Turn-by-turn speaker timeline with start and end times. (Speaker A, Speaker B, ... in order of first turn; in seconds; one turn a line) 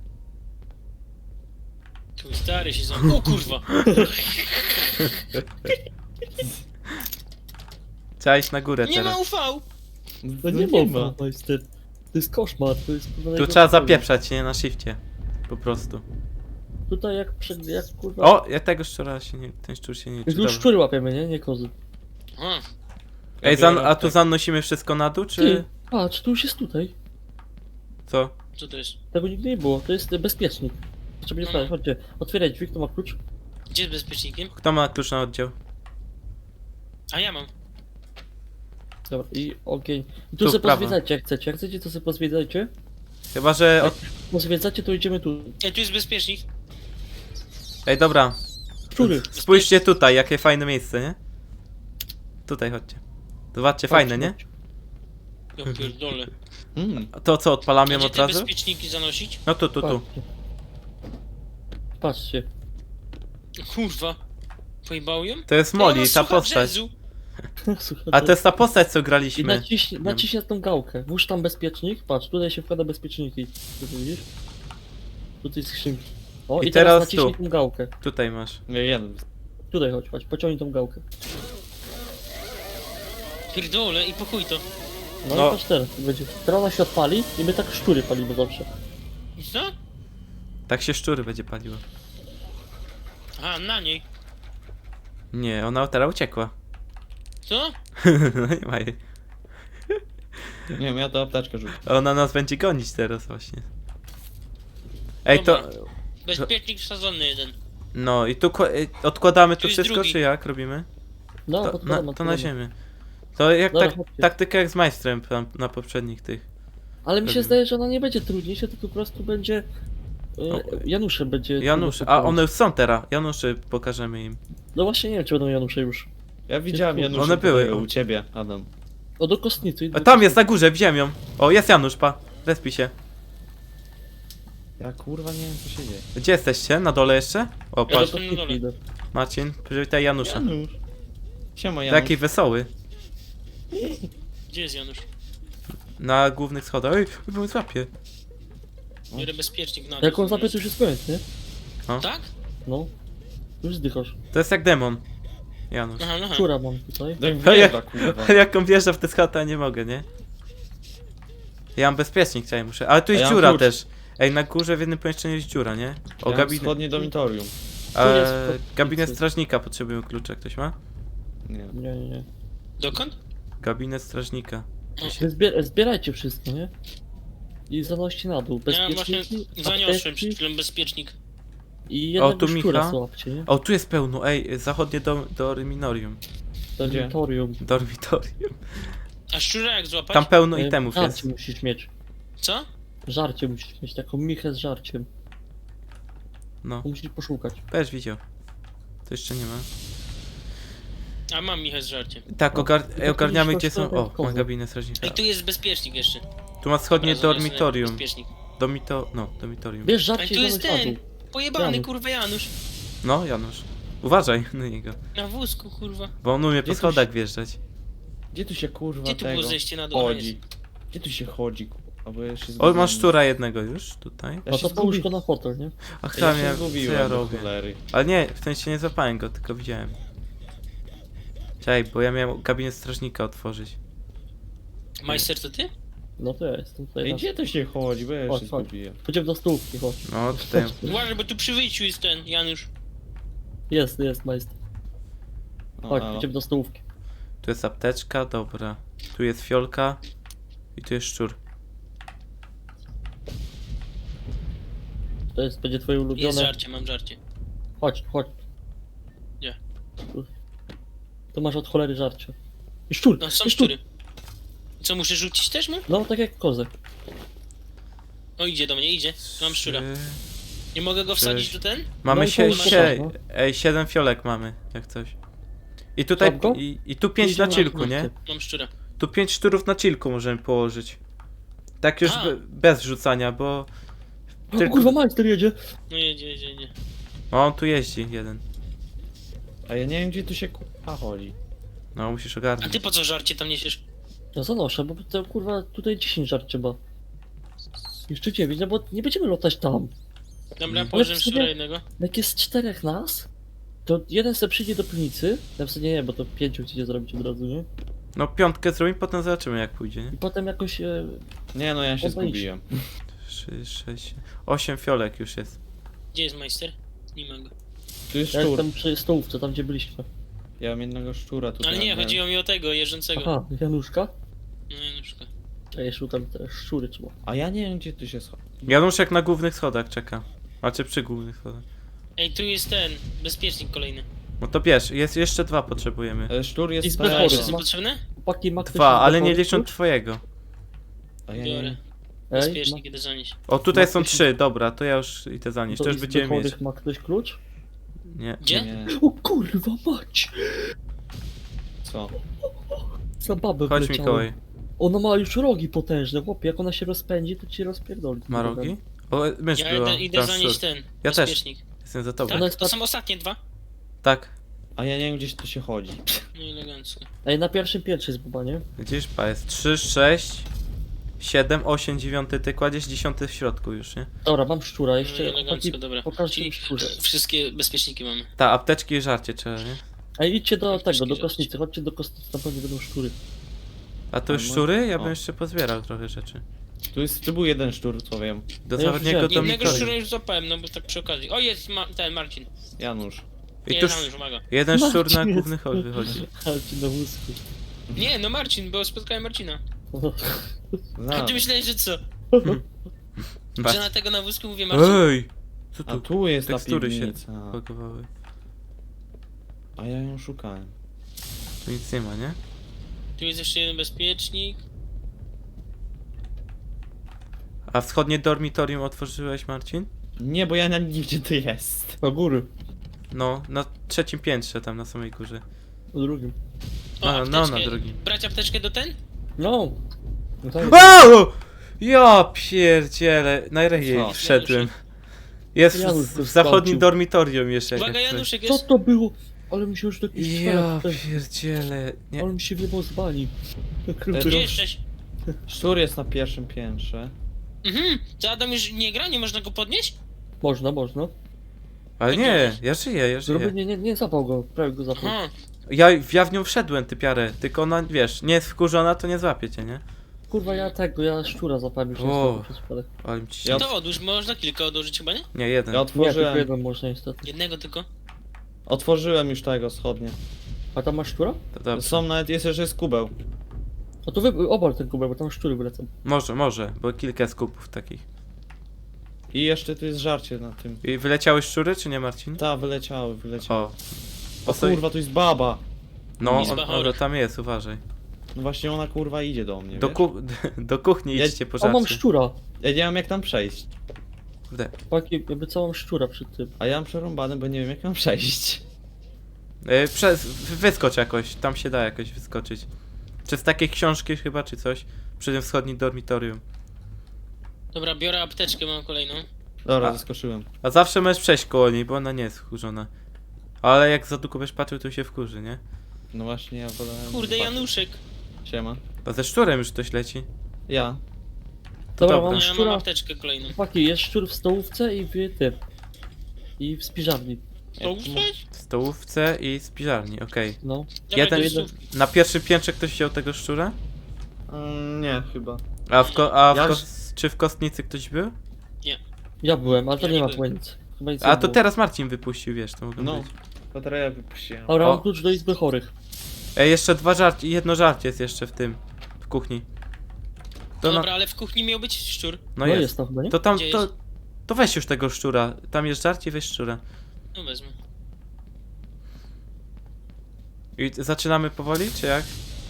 Speaker A: 2.2-3.7
Speaker B: 3.9-4.1
Speaker C: 8.2-9.2
Speaker A: 8.8-9.7
Speaker D: 10.2-11.2
Speaker B: 10.4-14.1
Speaker C: 13.4-16.1
Speaker B: 16.9-18.4
Speaker C: 18.2-20.7
Speaker B: 20.3-21.7
Speaker A: 22.4-22.6
Speaker D: 23.4-24.2
Speaker C: 23.4-25.7
Speaker B: 25.4-26.9
Speaker C: 28.1-28.3
Speaker A: 28.6-29.0
Speaker B: 29.1-33.2
Speaker A: 31.4-31.7
Speaker A: 33.7-34.5
Speaker C: 34.5-35.5
Speaker A: 37.1-37.5
Speaker B: 39.1-42.7
Speaker C: 40.4-41.0
Speaker C: 43.3-44.0
Speaker B: 43.8-45.6
Speaker A: 45.6-46.4
Speaker C: 47.9-48.4
Speaker B: 48.9-49.3
Speaker C: 49.0-51.2
Speaker A: 49.3-49.7
Speaker C: 52.5-53.0
Speaker C: 53.5-54.4
Speaker B: 53.9-54.4
Speaker A: 55.6-56.3
Speaker C: 55.6-55.9
Speaker D: 56.8-57.1
Speaker C: 57.1-58.5
Speaker A: 57.9-59.4
Speaker C: 59.5-60.0
Speaker B: 59.8-60.2
Speaker B: 62.0-62.5
Speaker A: 63.6-64.2
Speaker A: 64.8-66.9
Speaker C: 65.5-66.8
Speaker B: 67.7-68.4
Speaker C: 68.1-70.3
Speaker B: 69.4-74.3
Speaker B: 75.4-77.9
Speaker C: 76.6-77.4
Speaker C: 78.0-78.6
Speaker D: 78.7-79.2
Speaker B: 79.7-81.0
Speaker A: 83.5-84.7
Speaker B: 85.2-88.7
Speaker C: 85.3-85.6
Speaker A: 89.4-89.7
Speaker C: 90.7-91.8
Speaker A: 93.4-94.0
Speaker C: 95.3-96.5
Speaker A: 97.5-97.8
Speaker C: 98.0-99.0
Speaker D: 100.7-101.8
Speaker C: 101.8-103.7
Speaker C: 105.2-106.5
Speaker A: 105.3-105.7
Speaker A: 106.2-107.6
Speaker C: 107.9-110.9
Speaker A: 109.6-110.2
Speaker B: 111.5-112.5
Speaker C: 111.6-112.7
Speaker C: 113.4-116.5
Speaker B: 113.7-114.3
Speaker B: 117.0-119.7
Speaker C: 117.2-117.6
Speaker B: 120.4-122.4
Speaker C: 120.5-120.9
Speaker C: 121.6-124.4
Speaker B: 124.8-126.1
Speaker D: 126.5-128.7
Speaker B: 126.7-127.2
Speaker C: 127.1-127.9
Speaker B: 129.2-130.4
Speaker C: 129.9-132.9
Speaker D: 134.8-136.1
Speaker C: 136.2-138.1
Speaker B: 137.9-138.8
Speaker A: 137.9-138.6
Speaker C: 139.1-140.4
Speaker D: 140.2-140.8
Speaker D: 141.6-142.2
Speaker C: 141.9-142.7
Speaker D: 143.7-144.1
Speaker A: 144.5-145.1
Speaker C: 146.0-147.9
Speaker A: 149.2-150.6
Speaker B: 150.0-151.2
Speaker A: 152.0-152.3
Speaker B: 152.7-152.9
Speaker B: 153.6-154.2
Speaker C: 154.3-155.0
Speaker C: 155.7-156.1
Speaker A: 156.0-156.5
Speaker B: 156.3-157.2
Speaker D: 157.2-158.3
Speaker C: 157.4-160.1
Speaker C: 161.8-166.8
Speaker D: 163.1-163.7
Speaker D: 166.2-167.5
Speaker B: 167.9-169.2
Speaker C: 167.9-170.8
Speaker D: 171.5-171.8
Speaker B: 171.7-172.3
Speaker A: 172.8-173.2
Speaker C: 173.6-174.7
Speaker A: 175.0-175.2
Speaker B: 175.2-176.7
Speaker B: 177.7-180.4
Speaker A: 178.7-181.1
Speaker B: 181.9-183.5
Speaker C: 182.2-186.2
Speaker B: 186.8-187.6
Speaker D: 186.8-187.2
Speaker C: 187.6-188.9
Speaker A: 189.3-190.3
Speaker C: 190.1-191.3
Speaker B: 190.5-191.9
Speaker A: 192.4-192.7
Speaker B: 193.1-195.1
Speaker B: 196.8-197.6
Speaker C: 197.7-198.2
Speaker C: 199.1-199.7
Speaker A: 201.3-202.2
Speaker C: 202.3-205.2
Speaker B: 202.5-204.5
Speaker A: 205.0-206.2
Speaker C: 206.6-208.0
Speaker A: 206.9-208.3
Speaker C: 208.6-209.9
Speaker B: 209.8-211.0
Speaker A: 210.2-212.5
Speaker B: 211.6-211.9
Speaker C: 213.0-215.0
Speaker A: 215.2-216.1
Speaker C: 216.2-217.6
Speaker D: 216.6-217.1
Speaker D: 218.3-220.4
Speaker A: 219.1-220.4
Speaker D: 220.9-223.2
Speaker C: 222.6-224.5
Speaker D: 224.5-225.1
Speaker B: 224.5-225.8
Speaker C: 226.0-230.0
Speaker D: 226.2-227.8
Speaker C: 231.6-233.8
Speaker A: 235.0-235.7
Speaker B: 236.2-237.3
Speaker D: 237.0-239.0
Speaker B: 238.3-241.0
Speaker C: 240.1-240.8
Speaker A: 240.9-242.7
Speaker B: 243.7-244.5
Speaker D: 245.8-246.3
Speaker B: 245.9-246.8
Speaker C: 247.4-250.0
Speaker C: 250.8-251.4
Speaker B: 255.3-256.5
Speaker A: 256.2-257.2
Speaker B: 257.8-258.4
Speaker B: 260.0-260.3
Speaker B: 261.3-262.4
Speaker B: 262.9-263.7
Speaker A: 263.2-263.8
Speaker A: 264.8-265.9
Speaker B: 265.9-266.7
Speaker A: 268.4-269.9
Speaker C: 269.3-270.2
Speaker A: 270.8-271.9
Speaker C: 271.1-275.1
Speaker B: 272.1-273.1
Speaker A: 272.5-272.9
Speaker C: 276.0-278.1
Speaker B: 276.2-276.6
Speaker B: 277.2-278.1
Speaker A: 277.5-278.7
Speaker C: 279.0-281.0
Speaker C: 281.8-283.7
Speaker A: 282.0-282.4
Speaker B: 284.5-285.6
Speaker C: 284.6-285.0
Speaker A: 285.9-286.7
Speaker C: 287.3-288.4
Speaker D: 289.7-291.4
Speaker C: 291.9-292.8
Speaker A: 292.6-293.8
Speaker B: 294.4-296.8
Speaker B: 298.1-299.9
Speaker A: 300.6-301.8
Speaker B: 300.9-303.3
Speaker B: 303.9-307.7
Speaker C: 308.1-310.1
Speaker B: 310.1-311.2
Speaker D: 311.5-312.7
Speaker B: 312.0-312.4
Speaker C: 313.2-315.6
Speaker A: 316.1-317.5
Speaker D: 318.1-318.7
Speaker B: 318.3-320.1
Speaker D: 320.6-322.2
Speaker A: 321.6-323.3
Speaker B: 323.2-324.1
Speaker A: 324.7-325.3
Speaker B: 325.7-327.1
Speaker D: 327.2-328.8
Speaker C: 328.7-331.6
Speaker A: 332.2-334.1
Speaker C: 334.4-336.3
Speaker D: 336.3-337.6
Speaker B: 336.8-339.7
Speaker A: 337.0-338.0
Speaker C: 338.6-340.2
Speaker D: 341.3-341.8
Speaker A: 341.3-341.8
Speaker B: 342.3-342.8
Speaker A: 342.3-343.4
Speaker C: 343.5-346.6
Speaker B: 343.7-344.3
Speaker B: 345.7-347.4
Speaker C: 348.1-348.5
Speaker A: 348.4-348.7
Speaker D: 348.5-348.9
Speaker B: 348.9-350.7
Speaker D: 351.9-352.1
Speaker B: 352.7-358.8
Speaker C: 353.7-354.4
Speaker C: 358.3-362.4
Speaker A: 359.6-361.6
Speaker A: 362.3-363.4
Speaker B: 362.3-362.8
Speaker C: 364.0-364.3
Speaker D: 364.8-366.2
Speaker A: 366.4-367.1
Speaker B: 367.2-368.6
Speaker C: 368.8-370.5
Speaker C: 371.2-374.1
Speaker B: 374.2-377.0
Speaker A: 375.0-378.3
Speaker C: 378.4-379.8
Speaker B: 380.2-383.2
Speaker A: 380.7-381.5
Speaker C: 384.1-386.4
Speaker D: 384.3-385.2
Speaker D: 386.9-388.6
Speaker C: 388.6-389.9
Speaker B: 388.8-389.9
Speaker A: 389.3-392.5
Speaker D: 392.8-393.3
Speaker C: 393.6-396.2
Speaker A: 393.7-394.4
Speaker B: 394.7-397.4
Speaker A: 398.0-399.6
Speaker B: 399.9-400.5
Speaker D: 401.0-401.5
Speaker A: 401.1-402.0
Speaker B: 402.3-402.6
Speaker C: 403.6-403.8
Speaker A: 403.6-405.0
Speaker C: 404.7-408.1
Speaker D: 405.9-407.6
Speaker D: 409.8-410.7
Speaker C: 411.6-412.4
Speaker A: 413.2-414.6
Speaker C: 417.7-419.9
Speaker D: 420.2-422.0
Speaker B: 422.0-422.5
Speaker C: 423.1-425.4
Speaker B: 425.9-426.4
Speaker A: 427.0-429.0
Speaker C: 427.1-428.0
Speaker B: 429.4-429.8
Speaker B: 430.4-431.1
Speaker C: 430.6-434.8
Speaker D: 433.8-434.2
Speaker A: 434.1-434.7
Speaker C: 435.5-438.3
Speaker B: 435.7-436.9
Speaker A: 437.7-438.7
Speaker B: 438.4-441.2
Speaker C: 440.1-442.3
Speaker B: 442.2-443.3
Speaker B: 443.9-444.6
Speaker D: 444.1-444.5
Speaker A: 444.2-444.8
Speaker D: 445.5-447.1
Speaker A: 447.6-449.9
Speaker B: 450.4-451.1
Speaker C: 452.0-453.6
Speaker A: 452.1-452.6
Speaker B: 453.2-455.2
Speaker A: 455.0-455.3
Speaker C: 455.7-459.8
Speaker B: 460.3-462.9
Speaker A: 460.4-460.7
Speaker C: 462.0-463.6
Speaker D: 463.4-463.7
Speaker A: 463.5-465.3
Speaker C: 465.3-465.9
Speaker D: 465.7-466.5
Speaker B: 465.9-467.3
Speaker A: 467.2-467.9
Speaker D: 468.7-470.2
Speaker B: 470.7-471.4
Speaker C: 471.5-472.0
Speaker D: 471.7-473.1
Speaker B: 474.1-475.9
Speaker C: 476.0-478.0
Speaker D: 479.3-480.8
Speaker C: 480.8-482.4
Speaker D: 482.4-483.8
Speaker C: 483.5-483.7
Speaker D: 484.4-485.6
Speaker C: 484.5-484.8
Speaker C: 486.2-487.8
Speaker D: 486.2-486.6
Speaker A: 486.3-487.0
Speaker D: 488.3-490.1
Speaker C: 489.7-492.0
Speaker D: 491.1-491.4
Speaker B: 491.6-492.4
Speaker D: 492.6-493.7
Speaker B: 494.9-496.5
Speaker D: 496.6-498.6
Speaker C: 499.6-502.7
Speaker C: 503.2-506.4
Speaker A: 507.7-509.3
Speaker D: 509.6-510.5
Speaker C: 510.6-512.9
Speaker C: 513.6-515.6
Speaker D: 516.1-517.7
Speaker A: 517.1-518.0
Speaker D: 518.5-518.8
Speaker C: 519.0-520.3
Speaker D: 520.7-521.0
Speaker C: 522.0-522.4
Speaker B: 522.0-522.9
Speaker A: 522.3-523.5
Speaker B: 523.5-525.6
Speaker B: 526.6-527.4
Speaker A: 527.8-528.4
Speaker D: 527.8-528.4
Speaker C: 528.5-530.6
Speaker B: 530.6-531.7
Speaker A: 531.1-531.8
Speaker C: 531.2-533.8
Speaker D: 534.5-535.6
Speaker C: 535.9-538.4
Speaker A: 536.0-536.4
Speaker D: 536.5-536.9
Speaker B: 539.4-541.6
Speaker A: 540.0-540.4
Speaker C: 541.2-543.3
Speaker D: 543.0-544.8
Speaker B: 544.7-545.9
Speaker C: 546.6-549.6
Speaker C: 550.8-551.1
Speaker A: 550.8-552.4
Speaker C: 552.6-553.9
Speaker B: 552.6-553.4
Speaker A: 553.5-553.9
Speaker C: 554.5-556.8
Speaker A: 557.4-557.8
Speaker C: 560.8-562.3